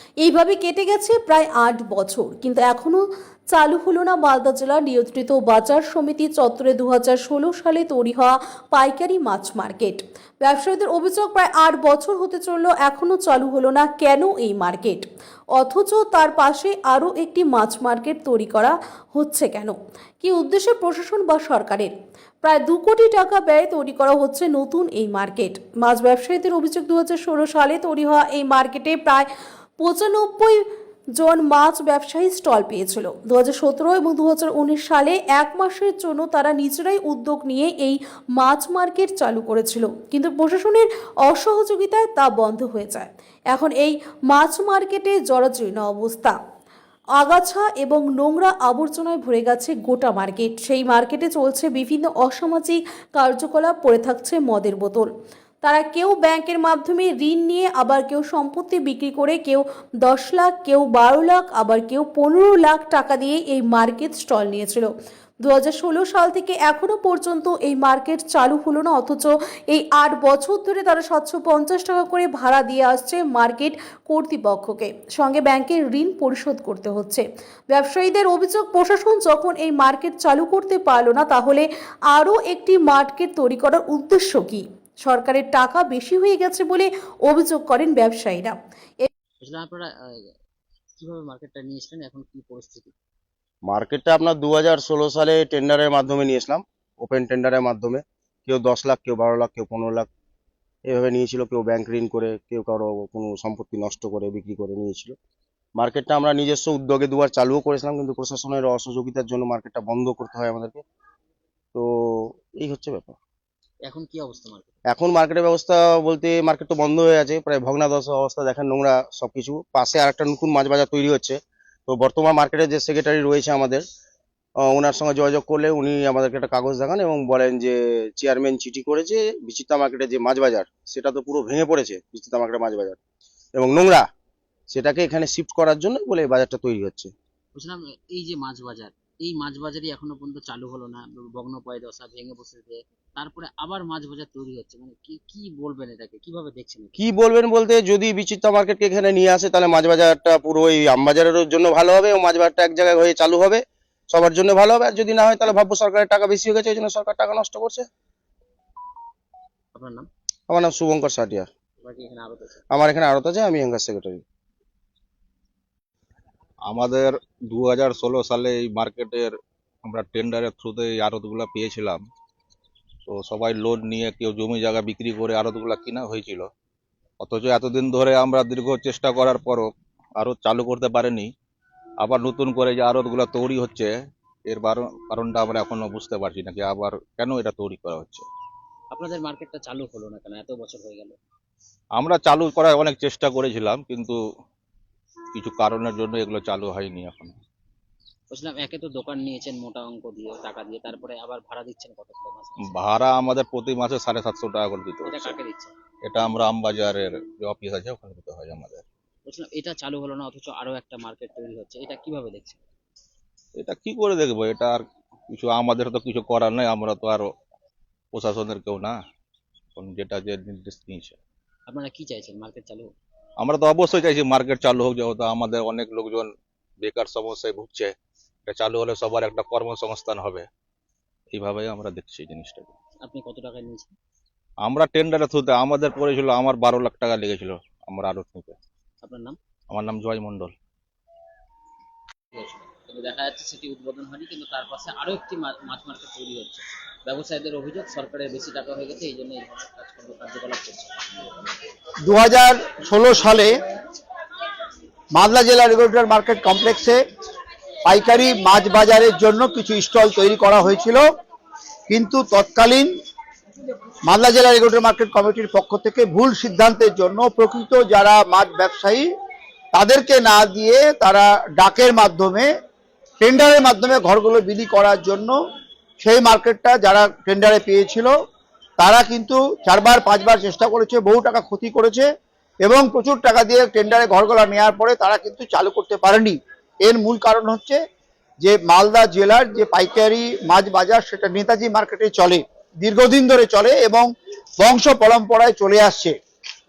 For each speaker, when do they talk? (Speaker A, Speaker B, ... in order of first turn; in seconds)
Speaker A: 0.2-29.3, 29.8-30.6, 31.2-46.4, 47.2-55.1, 55.6-64.9, 65.4-89.1
Speaker B: 89.4-89.9, 91.0-92.9, 113.9-114.7, 137.6-147.1, 159.8-160.1, 161.8-162.6, 188.9-191.2, 198.3-202.9, 205.0-205.7, 209.3-212.6, 221.7-222.9, 233.1-233.9, 239.0-239.4, 242.3-251.5
Speaker C: 93.7-100.1, 100.9-105.2, 105.8-110.8, 111.8-113.2, 114.9-123.8, 124.6-133.0, 133.6-134.1, 134.7-137.1, 147.0-157.9, 160.5-161.5, 162.7-164.2
Speaker D: 166.7-169.3, 169.8-172.0, 173.1-176.5, 177.2-181.3, 182.0-183.9, 184.5-188.2, 192.0-194.2, 195.3-197.4, 202.8-205.3, 206.0-208.8, 213.6-217.3, 218.1-219.0, 219.8-221.2, 223.4-226.3, 226.8-227.9, 228.5-230.5, 231.3-232.7, 234.6-238.6, 239.7-240.5
Speaker E: 252.0-253.5, 255.1-257.0, 257.9-261.1, 261.9-262.9, 264.1-269.1, 269.7-272.5, 273.2-275.4, 276.0-278.2, 278.8-282.1, 282.6-287.8, 288.4-294.1, 294.6-296.1